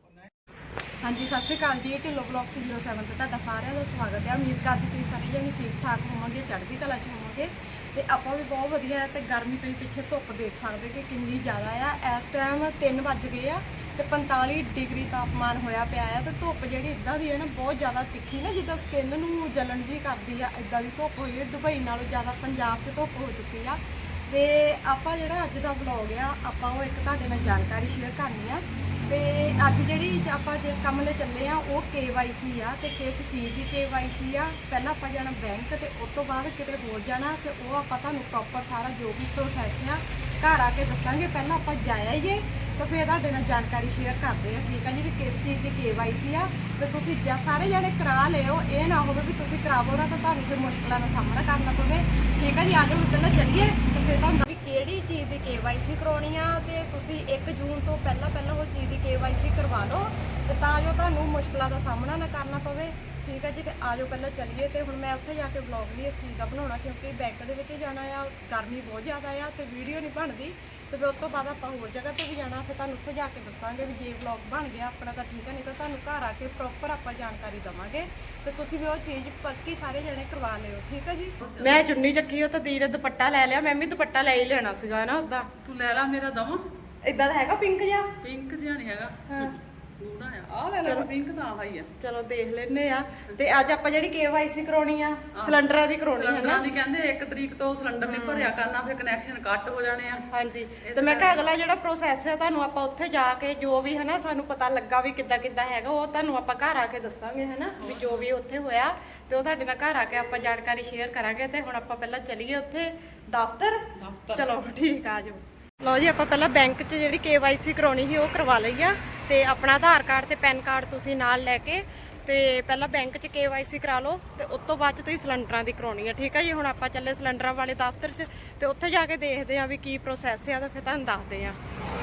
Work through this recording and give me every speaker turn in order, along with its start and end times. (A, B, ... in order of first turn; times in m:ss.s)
0:01.0-1:25.5 A
1:21.4-1:21.9 B
1:25.6-1:26.7 B
1:27.0-1:28.1 A
1:28.2-1:31.9 B
1:29.3-1:29.6 A
1:30.8-1:31.1 A
1:32.0-1:36.6 A
1:35.3-1:40.3 B
1:38.0-1:38.5 A
1:40.3-2:11.6 A
1:40.8-1:41.5 B
1:47.8-1:48.2 B
1:54.0-1:54.5 B